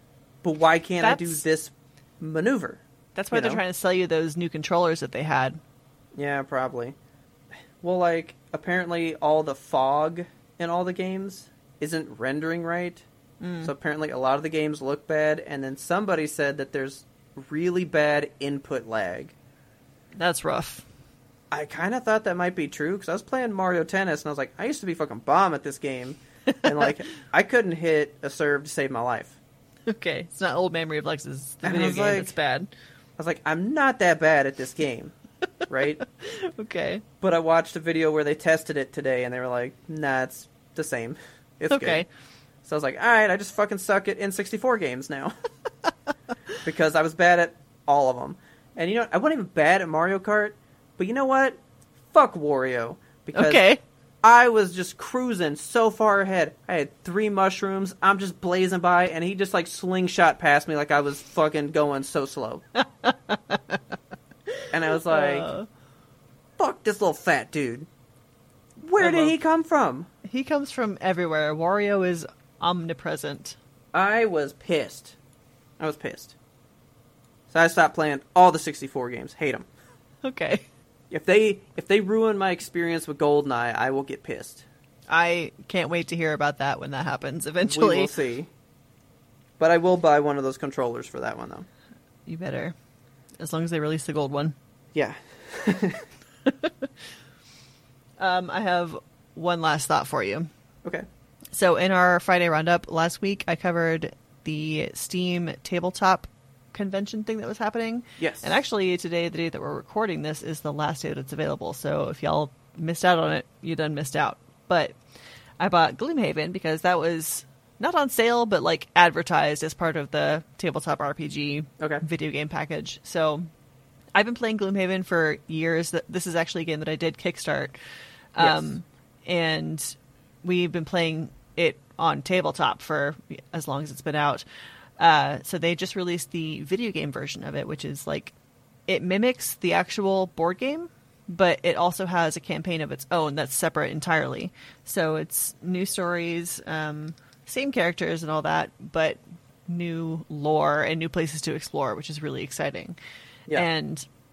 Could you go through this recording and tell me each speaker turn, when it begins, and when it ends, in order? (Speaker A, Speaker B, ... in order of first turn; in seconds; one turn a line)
Speaker A: 0.4-3.6
Speaker B: 1.0-1.4
Speaker B: 3.1-5.6
Speaker A: 6.1-7.0
Speaker A: 7.8-13.1
Speaker B: 13.4-13.7
Speaker A: 13.6-19.4
Speaker B: 20.1-20.9
Speaker A: 21.5-29.4
Speaker B: 26.5-26.9
Speaker B: 29.9-32.7
Speaker A: 31.6-32.4
Speaker A: 33.2-35.1
Speaker A: 35.7-36.0
Speaker B: 36.2-37.0
Speaker A: 37.2-42.0
Speaker B: 41.7-42.1
Speaker A: 42.6-45.3
Speaker A: 46.6-51.6
Speaker A: 52.1-53.6
Speaker B: 53.3-53.8
Speaker A: 54.2-62.6
Speaker B: 62.8-63.8
Speaker A: 64.7-65.5
Speaker B: 65.0-65.7
Speaker A: 66.6-67.9
Speaker A: 68.8-70.1
Speaker B: 69.0-69.3
Speaker B: 70.2-73.6
Speaker A: 73.9-75.2
Speaker A: 75.8-76.3
Speaker A: 77.5-79.7
Speaker B: 80.2-80.6
Speaker A: 81.1-84.6
Speaker B: 85.1-88.1
Speaker A: 87.6-88.5
Speaker A: 89.6-91.7
Speaker B: 92.3-92.7
Speaker B: 93.4-94.6
Speaker A: 94.9-96.0
Speaker B: 96.5-96.9
Speaker B: 98.2-100.5
Speaker B: 101.5-115.0
Speaker A: 108.2-108.6
Speaker B: 115.6-123.5
Speaker A: 121.8-122.0
Speaker B: 124.1-127.8
Speaker B: 128.3-134.4
Speaker A: 128.4-128.7
Speaker B: 135.0-138.3
Speaker B: 138.9-153.0
Speaker B: 153.5-154.1